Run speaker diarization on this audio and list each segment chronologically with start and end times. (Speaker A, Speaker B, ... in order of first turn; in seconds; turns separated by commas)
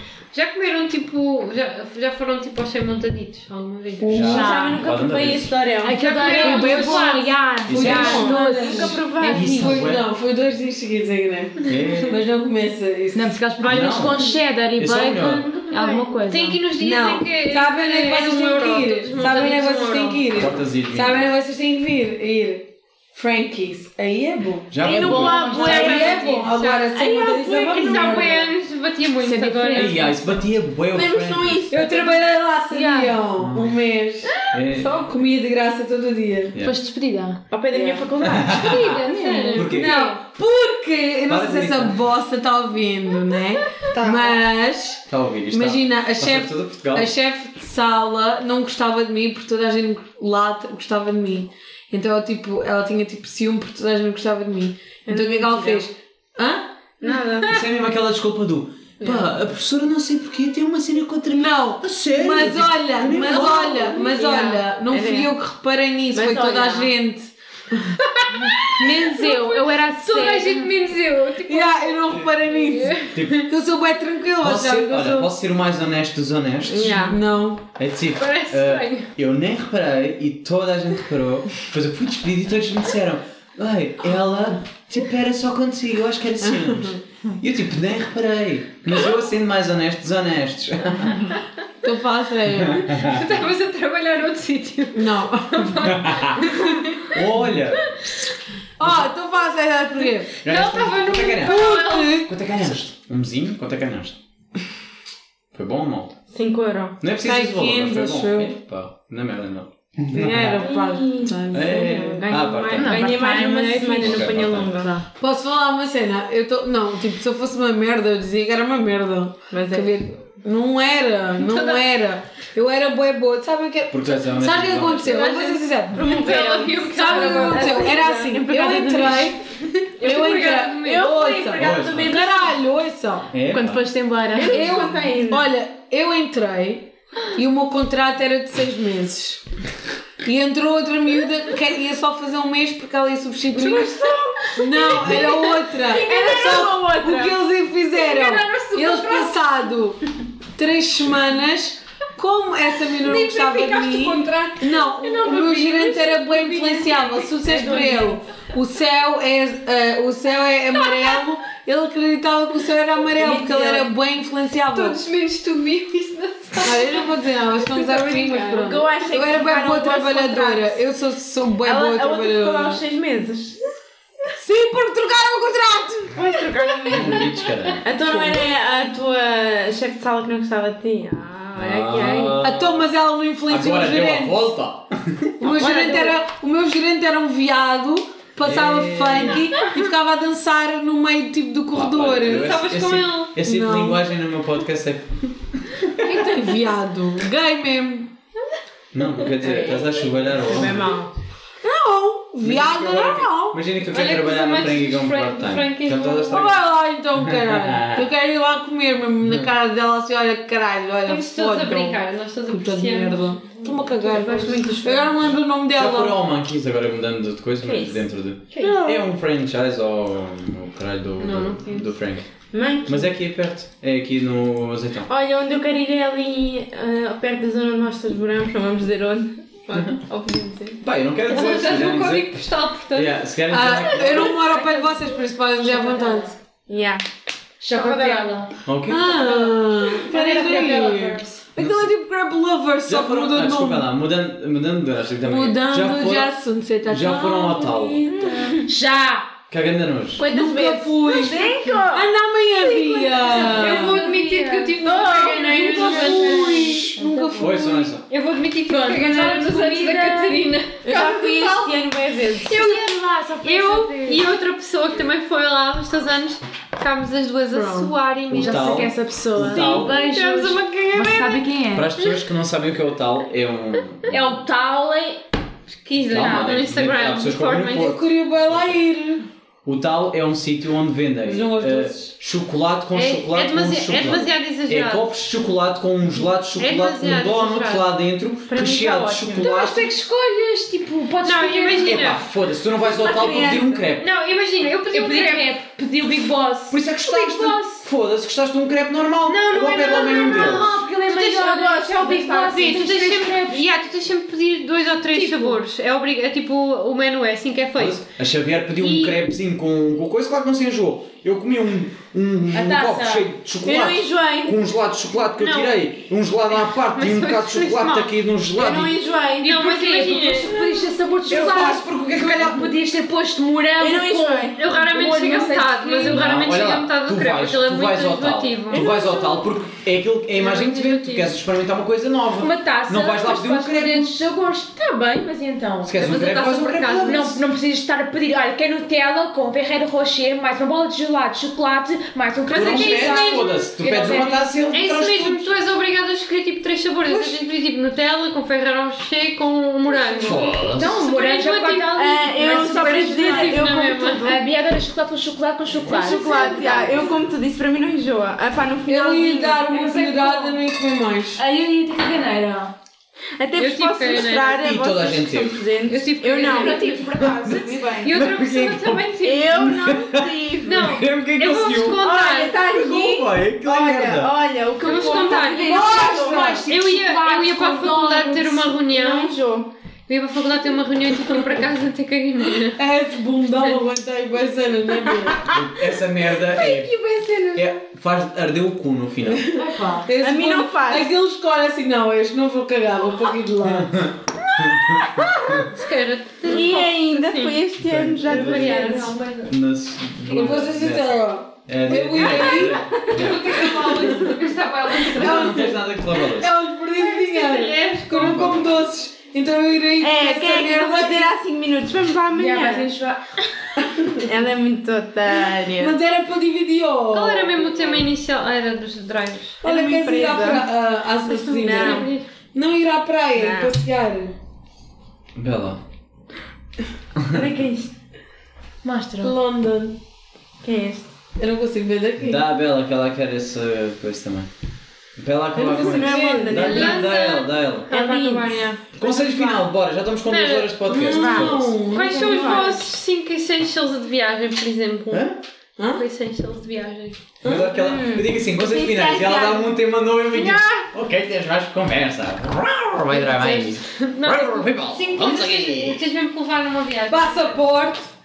Speaker A: 0.3-4.1, Speaker B: 4.0-4.6, Speaker C: 4.1-5.6, Speaker D: 4.1-4.8, Speaker E: 4.2-6.0, Speaker D: 5.8-9.9, Speaker A: 5.9-8.2, Speaker B: 6.2-7.2, Speaker C: 7.7-8.3, Speaker B: 7.7-13.3, Speaker E: 7.8-9.5, Speaker C: 9.3-10.0, Speaker C: 11.7-12.2, Speaker A: 11.7-12.2, Speaker D: 13.1-16.6, Speaker A: 13.6-14.3, Speaker C: 13.6-15.5, Speaker E: 15.2-16.2, Speaker A: 15.7-20.4, Speaker B: 16.8-28.4, Speaker C: 20.3-21.3, Speaker C: 24.7-25.5, Speaker E: 24.8-26.1, Speaker D: 25.0-26.6, Speaker A: 25.2-30.0, Speaker E: 27.0-28.5, Speaker D: 29.2-30.5, Speaker C: 29.7-31.6, Speaker E: 30.9-32.2, Speaker B: 31.7-36.5, Speaker E: 32.8-33.0, Speaker C: 33.4-33.8, Speaker C: 34.5-35.0, Speaker E: 34.8-35.1, Speaker C: 36.5-36.8, Speaker D: 36.6-37.4, Speaker E: 37.5-39.0, Speaker B: 37.7-38.1, Speaker C: 38.2-39.0, Speaker A: 38.5-40.2, Speaker D: 39.0-39.9, Speaker C: 39.5-40.0, Speaker B: 39.6-56.7, Speaker C: 41.3-42.0, Speaker E: 43.9-44.4, Speaker C: 45.1-47.1, Speaker E: 55.1-55.9, Speaker E: 57.0-57.5, Speaker C: 57.5-64.0, Speaker B: 61.3-67.9, Speaker E: 63.2-65.3, Speaker E: 66.1-66.9, Speaker A: 68.0-73.5, Speaker D: 68.3-70.8, Speaker B: 71.5-75.3, Speaker C: 73.1-73.4, Speaker C: 74.4-77.1, Speaker E: 76.7-77.2, Speaker B: 76.8-77.6, Speaker C: 77.8-91.4, Speaker A: 78.2-79.1, Speaker B: 86.4-87.0, Speaker B: 91.8-92.9, Speaker C: 92.5-93.4, Speaker A: 92.9-97.2, Speaker B: 94.9-95.8, Speaker C: 95.8-98.0, Speaker A: 97.8-98.2, Speaker B: 98.8-100.3, Speaker C: 98.8-99.0, Speaker C: 100.4-104.2, Speaker A: 100.4-102.2, Speaker B: 101.4-102.3, Speaker C: 105.5-106.2, Speaker E: 106.3-107.0, Speaker C: 107.0-110.7, Speaker B: 107.2-108.5, Speaker B: 110.1-112.2, Speaker E: 110.5-114.9, Speaker C: 111.5-114.8, Speaker D: 112.7-115.0, Speaker B: 115.2-126.1, Speaker E: 119.5-119.9, Speaker A: 121.4-121.8, Speaker C: 123.9-125.3, Speaker A: 125.1-128.1, Speaker E: 125.9-129.5, Speaker B: 126.9-129.4, Speaker A: 130.0-131.1, Speaker B: 130.0-133.3, Speaker E: 130.1-132.6, Speaker C: 131.6-132.1, Speaker C: 133.3-133.8, Speaker D: 133.5-134.8, Speaker E: 134.3-135.5, Speaker B: 134.4-139.4, Speaker B: 140.2-150.0, Speaker E: 143.5-147.4, Speaker A: 144.5-146.5, Speaker A: 147.9-149.5, Speaker B: 150.5-165.0, Speaker A: 153.0-157.7, Speaker E: 157.4-158.2, Speaker E: 163.2-163.9, Speaker A: 164.7-167.0, Speaker B: 166.6-172.8, Speaker E: 167.7-170.8, Speaker E: 171.6-173.6, Speaker B: 174.3-176.1, Speaker E: 176.1-182.4, Speaker C: 176.9-178.3, Speaker C: 181.6-182.9, Speaker B: 182.4-184.5, Speaker C: 183.5-185.8, Speaker B: 185.4-192.5, Speaker A: 185.6-186.1, Speaker C: 188.4-189.5, Speaker C: 191.7-196.1, Speaker A: 192.2-193.3, Speaker B: 193.4-194.0, Speaker B: 196.0-198.1, Speaker C: 198.9-200.9, Speaker E: 199.3-201.1, Speaker B: 201.6-203.6, Speaker C: 202.4-208.1, Speaker A: 203.9-206.5, Speaker B: 206.3-216.2, Speaker A: 211.1-213.9, Speaker E: 214.0-215.3, Speaker C: 215.7-222.2, Speaker E: 217.6-218.1, Speaker A: 218.5-218.8, Speaker B: 218.6-219.0, Speaker A: 221.2-221.7, Speaker E: 222.5-223.1, Speaker C: 222.8-225.1, Speaker E: 225.1-230.8, Speaker C: 230.8-234.4, Speaker A: 231.2-233.2, Speaker B: 233.5-236.3, Speaker E: 234.4-235.0, Speaker D: 235.6-236.3, Speaker E: 236.7-237.0, Speaker D: 237.6-238.6, Speaker A: 237.7-238.3, Speaker C: 238.6-239.2, Speaker B: 238.8-243.9, Speaker D: 240.0-241.4, Speaker E: 240.1-241.1, Speaker C: 241.6-241.9, Speaker C: 242.9-246.3, Speaker B: 245.2-248.1, Speaker C: 246.9-248.0, Speaker D: 248.0-249.4, Speaker E: 248.1-248.7, Speaker C: 249.5-250.2, Speaker E: 250.2-253.5, Speaker B: 250.3-254.0, Speaker D: 253.3-257.6, Speaker A: 253.4-256.6, Speaker E: 254.8-256.4, Speaker B: 254.9-257.9, Speaker C: 257.4-258.0, Speaker A: 258.1-261.7, Speaker D: 258.7-260.5, Speaker E: 260.8-262.6, Speaker A: 262.4-272.2, Speaker D: 262.5-264.2, Speaker B: 267.5-267.9, Speaker C: 268.3-269.9, Speaker D: 268.3-271.9, Speaker C: 271.7-274.4, Speaker D: 274.1-275.2, Speaker A: 275.7-278.0, Speaker C: 276.1-278.8, Speaker B: 277.7-279.2, Speaker C: 279.6-289.9, Speaker B: 281.2-282.1, Speaker A: 282.9-285.1, Speaker A: 286.6-287.9, Speaker E: 288.5-289.5, Speaker D: 289.3-292.1, Speaker A: 291.2-292.2, Speaker C: 291.8-294.1, Speaker E: 292.8-293.8, Speaker A: 294.0-295.6, Speaker D: 294.8-297.9, Speaker C: 296.7-300.8, Speaker A: 299.2-301.5, Speaker D: 299.9-303.8, Speaker E: 301.1-303.1, Speaker A: 302.5-308.0, Speaker D: 305.1-305.6, Speaker C: 307.8-318.9, Speaker A: 308.8-309.2, Speaker D: 312.5-313.3, Speaker E: 313.6-314.6, Speaker A: 315.4-315.8, Speaker A: 316.8-318.1, Speaker E: 318.5-319.7, Speaker A: 319.4-320.6, Speaker D: 319.5-326.3, Speaker C: 321.2-322.7, Speaker E: 321.3-322.0, Speaker E: 323.8-324.6, Speaker A: 324.6-328.9, Speaker C: 326.1-334.1, Speaker D: 328.8-329.4, Speaker A: 330.3-331.3, Speaker D: 332.4-336.0, Speaker C: 335.8-337.4, Speaker A: 336.0-337.2, Speaker D: 337.0-344.4, Speaker A: 342.5-354.4, Speaker C: 342.5-345.5, Speaker E: 347.1-347.4, Speaker C: 350.2-351.0, Speaker D: 350.7-357.1, Speaker E: 351.9-354.4, Speaker E: 355.8-359.7, Speaker B: 358.9-361.4, Speaker D: 359.7-360.6, Speaker D: 361.4-362.7, Speaker E: 363.4-368.1, Speaker A: 363.6-364.6, Speaker C: 364.4-365.6, Speaker A: 365.9-369.8, Speaker D: 366.4-367.6, Speaker C: 367.1-374.3, Speaker E: 369.2-370.9, Speaker A: 370.6-372.6, Speaker E: 371.9-376.6, Speaker A: 374.8-376.1, Speaker B: 375.5-376.6, Speaker D: 375.7-378.8, Speaker A: 376.6-379.3, Speaker E: 378.9-379.7, Speaker A: 380.1-382.8, Speaker B: 382.8-385.4, Speaker E: 385.2-385.6, Speaker C: 385.5-386.9, Speaker E: 386.4-387.7, Speaker C: 387.5-389.5, Speaker B: 389.2-394.0, Speaker D: 389.5-390.1, Speaker E: 390.2-391.1, Speaker C: 393.6-395.7, Speaker A: 395.7-397.6, Speaker E: 396.4-399.1, Speaker C: 397.8-398.9, Speaker A: 398.2-399.5, Speaker C: 399.5-403.9, Speaker A: 400.3-400.6, Speaker B: 400.3-402.9, Speaker E: 402.2-403.2, Speaker A: 403.0-405.6, Speaker B: 403.6-404.0, Speaker B: 405.1-411.3, Speaker C: 405.1-406.5, Speaker A: 406.9-408.5, Speaker C: 408.1-408.7, Speaker E: 410.0-412.9, Speaker D: 412.3-413.7, Speaker B: 413.8-414.2, Speaker E: 414.2-416.0, Speaker B: 415.8-417.6, Speaker A: 417.1-419.6, Speaker E: 417.8-418.0, Speaker B: 419.6-424.3, Speaker E: 419.6-420.7, Speaker E: 421.2-422.1, Speaker A: 421.6-422.2, Speaker E: 423.3-423.7, Speaker C: 425.3-425.8, Speaker C: 427.2-427.4, Speaker E: 427.3-427.9, Speaker D: 428.8-429.4, Speaker B: 429.2-430.0, Speaker E: 430.6-431.1, Speaker B: 431.4-432.4, Speaker C: 432.2-434.5, Speaker C: 435.2-437.9, Speaker E: 435.5-437.2, Speaker B: 435.6-436.7, Speaker A: 436.6-438.8, Speaker E: 437.9-438.6, Speaker C: 439.0-441.8, Speaker B: 439.2-439.6, Speaker A: 440.3-440.8, Speaker B: 440.9-442.6, Speaker E: 440.9-442.9, Speaker A: 441.9-445.3, Speaker C: 445.1-445.4, Speaker B: 445.8-446.0, Speaker A: 445.9-447.2, Speaker B: 447.4-447.7, Speaker C: 447.4-456.0, Speaker E: 447.5-449.7, Speaker E: 450.3-450.9, Speaker A: 453.1-457.6, Speaker B: 457.1-458.1